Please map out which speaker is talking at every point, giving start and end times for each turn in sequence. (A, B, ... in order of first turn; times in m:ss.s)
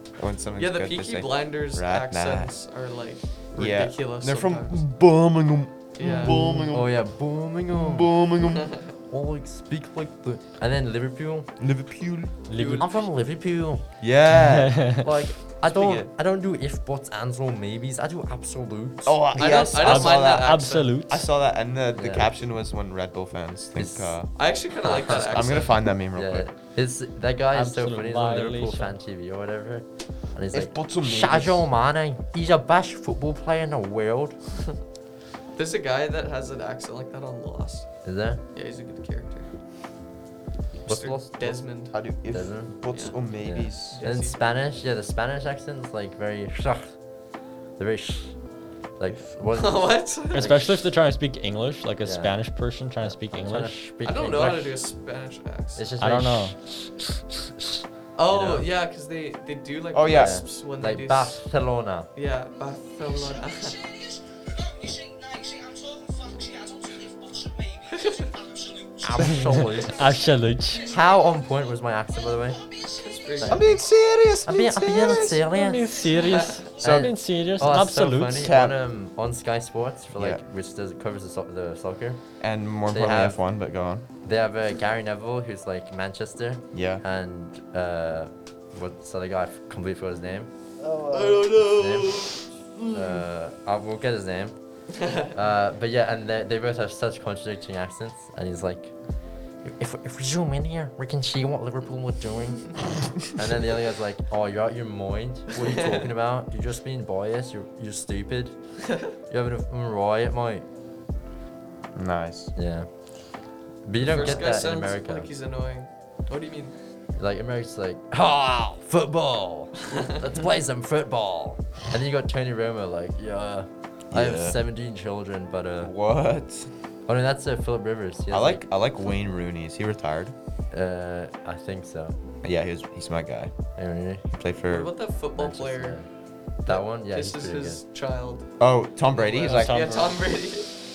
0:00.2-0:02.5 A
0:00.6-0:04.8 B
0:03.6-0:07.1 A
0:06.0-0:06.7 B
0:06.2-0:08.1 C
0:07.7-0:08.7 A
0:09.1-0:11.5 C
0:11.6-0:12.4 A
0:12.5-0:12.9 D
0:12.5-0:12.9 B
0:12.8-0:13.8 C
0:14.0-0:15.1 A
0:14.6-0:15.0 D
0:15.0-0:19.2 C
0:15.7-0:16.0 B
0:15.8-0:16.1 A
0:19.1-0:26.5 A
0:19.4-0:21.0 B
0:19.8-0:21.3 D
0:22.0-0:22.3 C
0:23.8-0:24.2 C
0:24.4-0:25.8 B
0:24.8-0:25.2 C
0:26.1-0:34.4 C
0:27.5-0:29.0 D
0:30.5-0:31.7 A
0:35.5-0:39.5 B
0:38.0-0:38.4 C
0:40.9-0:41.6 C
0:40.9-0:42.1 B
0:41.9-0:44.0 A
0:42.3-0:42.7 C
0:42.9-0:43.2 B
0:43.3-0:47.0 C
0:43.9-0:44.4 B
0:47.8-0:48.4 C
0:49.0-0:50.6 C
0:49.5-0:50.6 B
0:50.3-0:53.8 D
0:52.0-0:52.4 C
0:53.0-0:54.8 C
0:54.0-0:55.9 B
0:55.8-0:56.6 C
0:56.0-0:56.6 D
0:58.2-1:01.4 B
0:58.3-0:58.7 C
0:59.9-1:00.4 A
1:00.1-1:02.1 C
1:02.2-1:03.9 B
1:09.0-1:10.0 C
1:09.9-1:10.9 D
1:10.9-1:12.7 C
1:12.9-1:13.7 B
1:13.4-1:16.0 C
1:13.5-1:15.4 A
1:15.4-1:18.5 D
1:16.2-1:16.6 B
1:16.8-1:17.2 A
1:16.8-1:22.2 C
1:18.3-1:18.8 A
1:20.2-1:20.4 A
1:22.4-1:24.1 A
1:22.9-1:23.4 C
1:24.2-1:30.5 C
1:26.7-1:27.0 A
1:30.8-1:33.2 A
1:31.1-1:32.4 B
1:31.6-1:32.2 C
1:32.9-1:34.6 C
1:35.0-1:35.3 B
1:35.3-1:39.0 C
1:39.6-1:50.6 C
1:45.6-1:46.1 B
1:51.9-1:52.5 A
1:52.6-1:52.9 C
1:53.8-1:55.3 C
1:54.0-1:56.7 B
1:54.2-1:54.5 A
1:57.2-2:05.9 C
2:04.1-2:04.6 A
2:05.8-2:06.7 A
2:07.1-2:08.6 C
2:08.3-2:10.3 A
2:10.7-2:12.2 C
2:12.4-2:13.5 A
2:13.8-2:14.2 C
2:14.3-2:14.9 A
2:14.7-2:16.0 B
2:15.4-2:16.1 C
2:16.6-2:18.6 B
2:16.6-2:17.8 C
2:18.6-2:19.9 A
2:19.1-2:20.7 B
2:19.4-2:20.2 D